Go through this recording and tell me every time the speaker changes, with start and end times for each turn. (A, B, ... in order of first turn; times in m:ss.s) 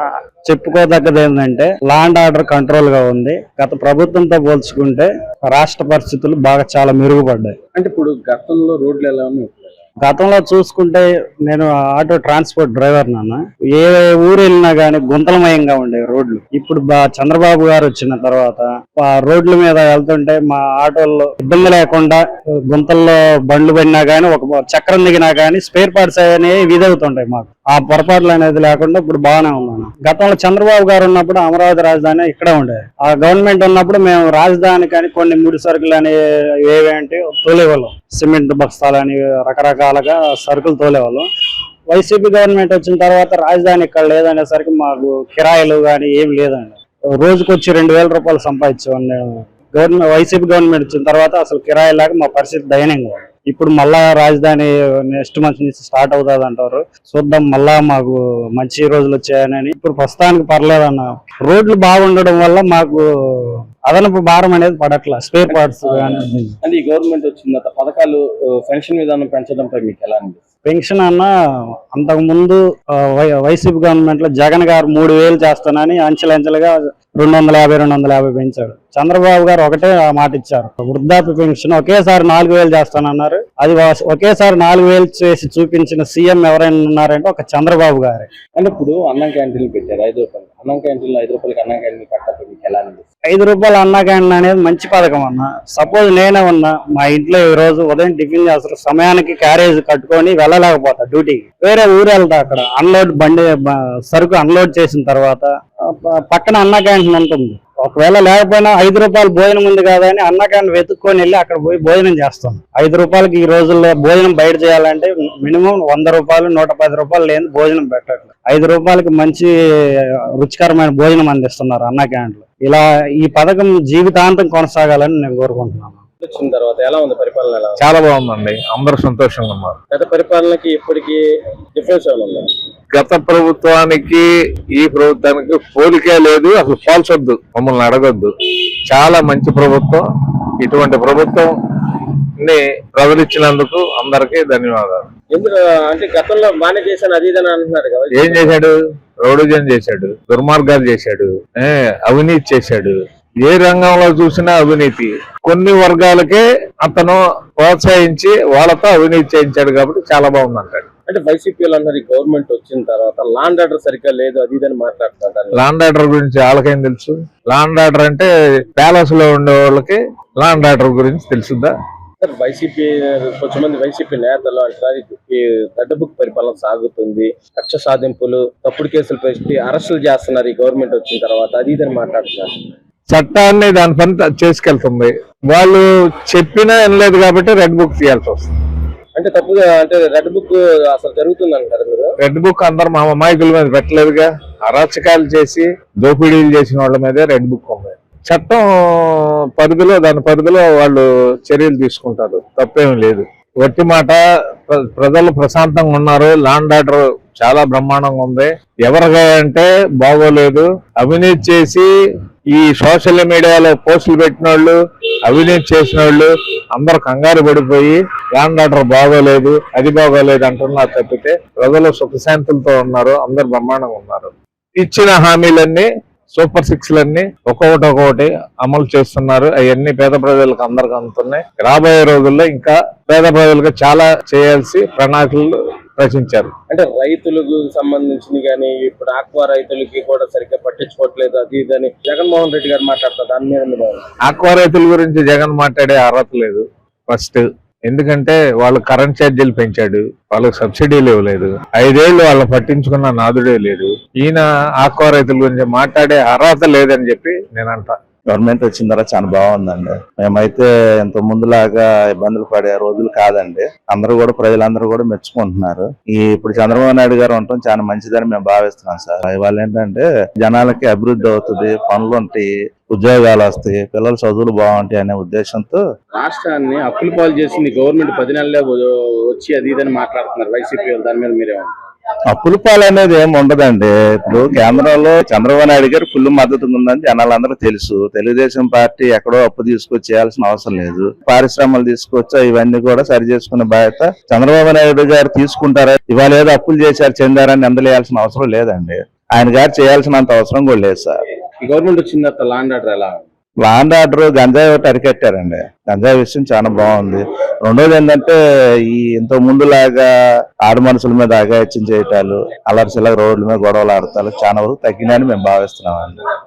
0:00.4-0:07.6 A
0:07.8-0:09.8 B
0:10.0-0:41.2 A
0:41.9-1:06.6 A
1:05.5-1:10.4 B
1:10.6-1:11.3 A
1:11.9-1:28.3 A
1:28.6-1:33.0 B
1:33.3-1:59.5 A
2:00.4-2:06.0 A
2:06.2-2:07.9 B
2:07.8-2:09.8 C
2:09.9-2:11.2 B
2:11.7-2:12.5 B
2:12.9-2:14.2 C
2:14.8-2:18.3 C
2:18.9-2:20.0 C
2:20.6-2:21.5 C
2:22.4-2:25.1 C
2:25.3-2:28.6 B
2:28.1-2:40.9 C
2:41.1-2:45.6 B
2:45.5-2:51.7 C
2:52.2-3:02.7 B
3:03.1-3:08.6 C
3:09.2-3:12.1 B
3:12.2-3:31.9 C
3:32.5-3:34.8 C
3:35.3-3:56.5 C
3:56.7-4:04.0 B
4:04.2-4:18.0 C
4:18.3-4:35.8 D
4:36.1-4:41.7 B
4:42.3-5:01.2 D
5:01.6-5:03.3 B
5:03.6-5:10.1 D
5:10.6-5:16.2 D